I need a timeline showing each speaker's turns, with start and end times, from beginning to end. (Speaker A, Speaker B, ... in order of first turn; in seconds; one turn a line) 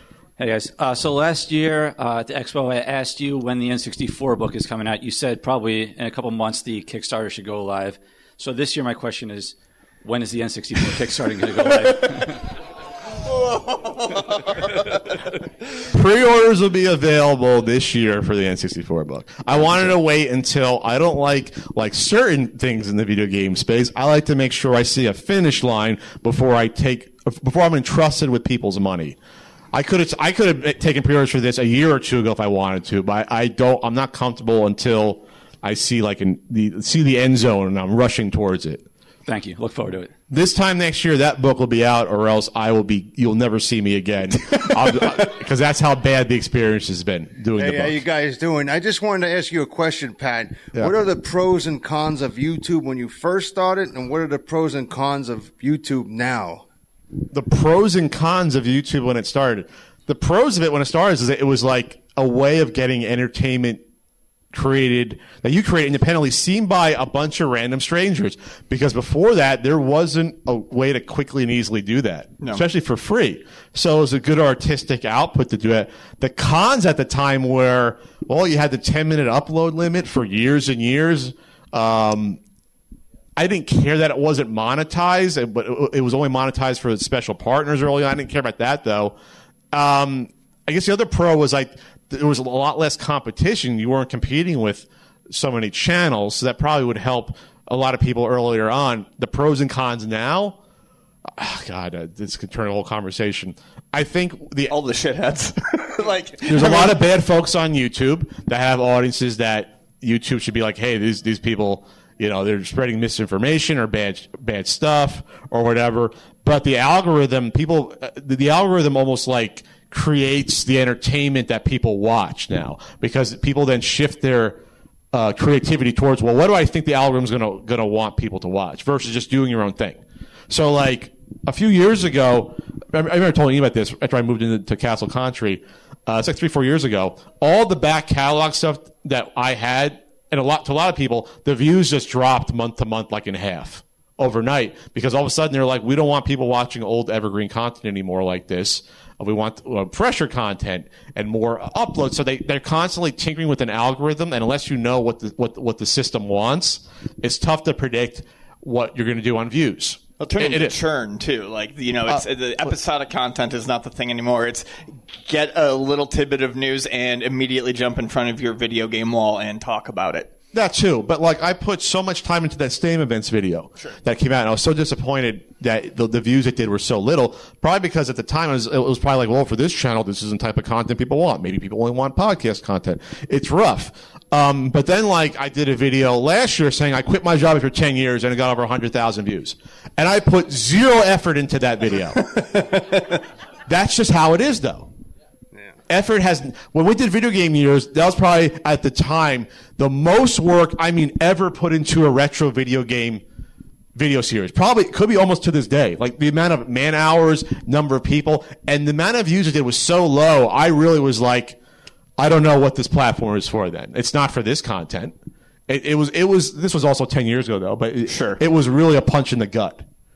Speaker A: 0.4-12.4
Speaker B: 13.7-14.0
Speaker C: 15.8-29.2
Speaker C: 29.7-38.8
Speaker A: 39.2-40.1
Speaker C: 40.3-48.0
Speaker D: 47.5-56.6
Speaker C: 57.3-63.8
Speaker C: 64.5-82.4
Speaker C: 83.3-89.1
Speaker C: 89.7-100.6
Speaker C: 101.3-104.7
Speaker B: 104.7-107.0
Speaker C: 106.4-124.6
Speaker C: 125.1-160.8
Speaker B: 160.2-164.7
Speaker B: 165.2-170.3
Speaker C: 170.5-192.8
Speaker C: 193.7-194.9
Speaker C: 195.9-203.2
Speaker C: 203.9-211.6
Speaker C: 212.2-215.1
Speaker C: 215.7-219.8
Speaker B: 218.1-218.4